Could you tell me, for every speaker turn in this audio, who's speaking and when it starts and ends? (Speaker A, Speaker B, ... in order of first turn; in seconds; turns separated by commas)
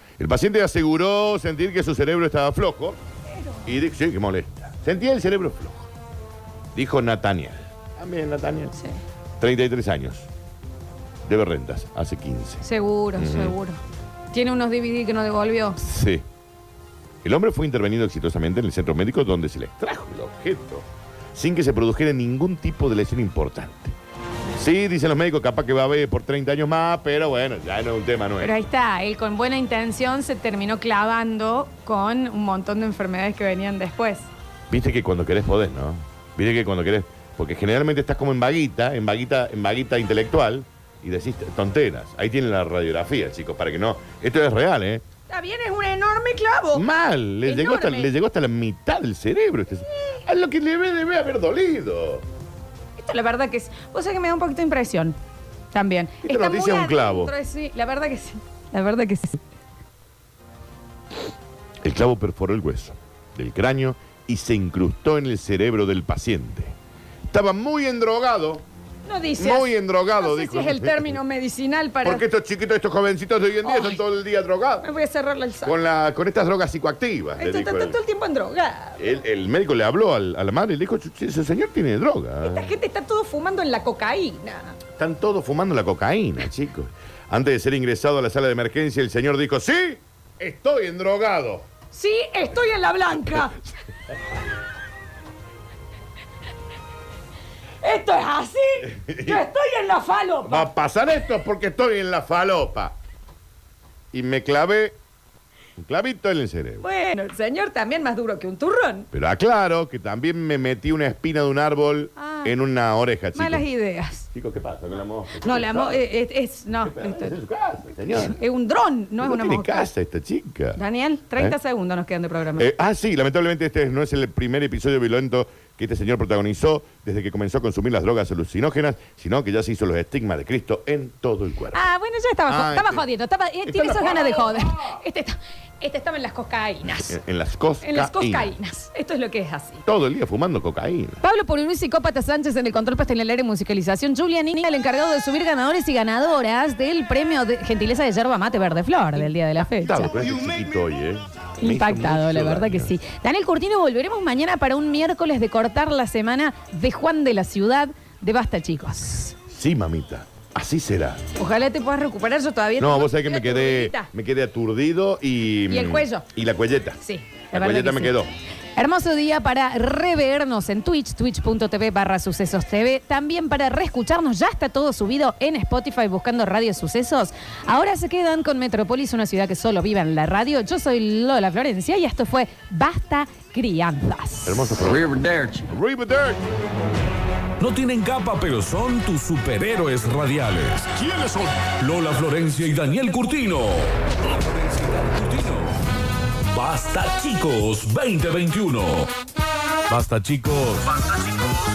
Speaker A: 0.2-3.0, Speaker A: 3.6-5.9, Speaker A: 6.8-8.8, Speaker A: 9.4-10.3, Speaker A: 11.3-12.6, Speaker B: 12.6-13.8, Speaker A: 13.2-13.6, Speaker B: 14.3-15.8, Speaker A: 15.8-16.2, Speaker A: 17.2-24.0, Speaker A: 24.6-28.6, Speaker B: 28.4-34.3, Speaker A: 34.7-45.0, Speaker B: 45.3-46.8, Speaker A: 46.7-52.2, Speaker B: 47.5-48.1, Speaker B: 53.0-55.2, Speaker B: 55.7-59.4, Speaker A: 56.2-57.3, Speaker A: 61.8-66.8, Speaker A: 67.3-68.6, Speaker B: 69.0-72.2, Speaker A: 69.4-71.1, Speaker A: 72.0-74.9, Speaker B: 73.6-74.0, Speaker B: 74.8-75.7, Speaker A: 75.6-78.0, Speaker B: 77.4-79.0, Speaker A: 79.0-82.7, Speaker B: 82.4-84.8, Speaker A: 85.0-91.7, Speaker B: 91.9-93.6, Speaker B: 97.8-100.7, Speaker A: 98.8-99.4, Speaker A: 100.4-103.0, Speaker A: 104.1-105.0, Speaker A: 105.8-106.8, Speaker B: 106.8-109.1, Speaker A: 109.1-113.7, Speaker B: 112.2-112.5, Speaker B: 113.3-114.3, Speaker A: 114.3-116.1, Speaker B: 115.4-117.3, Speaker A: 116.8-118.4, Speaker B: 118.1-119.9, Speaker A: 119.2-120.8, Speaker B: 120.8-122.7, Speaker A: 122.6-131.8, Speaker B: 131.7-137.2, Speaker A: 132.5-133.0, Speaker A: 133.7-134.9, Speaker A: 136.9-138.5, Speaker B: 137.8-139.8, Speaker A: 139.9-141.2, Speaker B: 141.2-150.1, Speaker A: 149.8-152.9, Speaker B: 151.6-159.3, Speaker A: 159.5-161.2, Speaker B: 161.4-164.1, Speaker A: 162.8-167.0, Speaker B: 165.7-166.3, Speaker B: 167.0-168.1, Speaker A: 167.5-168.3, Speaker B: 168.8-184.8, Speaker A: 184.5-186.4, Speaker C: 187.6-195.8, Speaker C: 196.4-199.1, Speaker C: 199.9-201.2